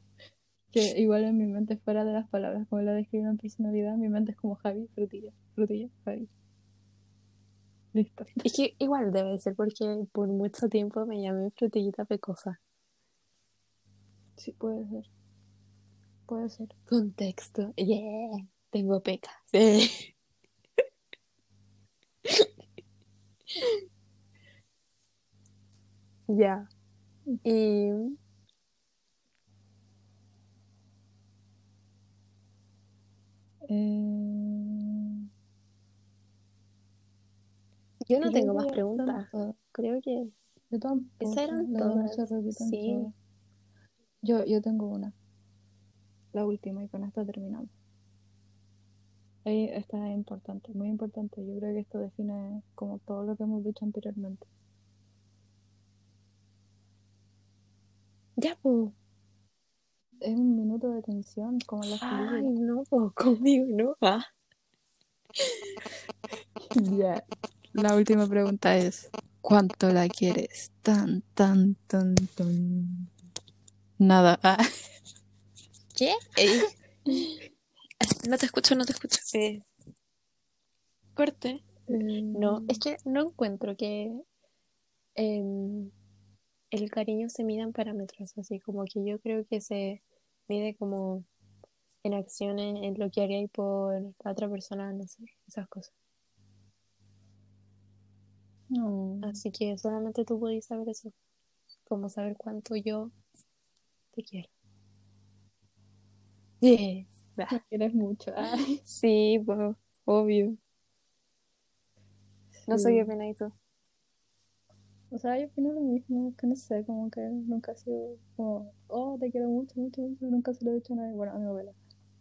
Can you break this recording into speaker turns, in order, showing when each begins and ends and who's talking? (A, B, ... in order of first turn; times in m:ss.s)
0:00.7-0:06.3 A
0:07.9-0:08.3 A
0:08.4-0:12.6 B
0:14.4-0:15.1 A
0:16.3-0:16.8 A
0:16.9-0:20.1 B
0:22.2-0:22.5 B
0:26.3-0:26.7 B
0:27.4-0:28.2 B
0:33.7-0:35.1 A
0:38.1-0:40.3 B
0:38.2-0:39.6 A
0:40.7-0:43.1 A
0:41.2-0:43.1 B
0:44.2-0:45.1 A
0:46.3-0:47.7 A
0:49.4-0:54.5 A
0:58.4-0:59.0 B
1:00.2-1:02.5 A
1:02.0-1:04.3 B
1:05.4-1:05.8 B
1:06.6-1:07.2 A
1:07.8-1:13.1 A
1:14.0-1:14.6 A
1:16.0-1:16.7 B
1:18.0-1:19.7 B
1:21.2-1:24.2 B
1:21.9-1:22.8 A
1:25.2-1:25.9 B
1:26.7-1:31.3 B
1:32.0-1:35.9 B
1:38.8-1:39.4 A
1:39.2-1:41.2 B
1:41.9-1:43.1 B
1:44.1-1:44.5 B
1:46.6-1:47.6 B
1:47.5-1:48.8 A
1:48.8-1:50.6 B
1:52.6-1:53.1 A
1:52.7-1:53.5 B
1:55.1-2:01.8 A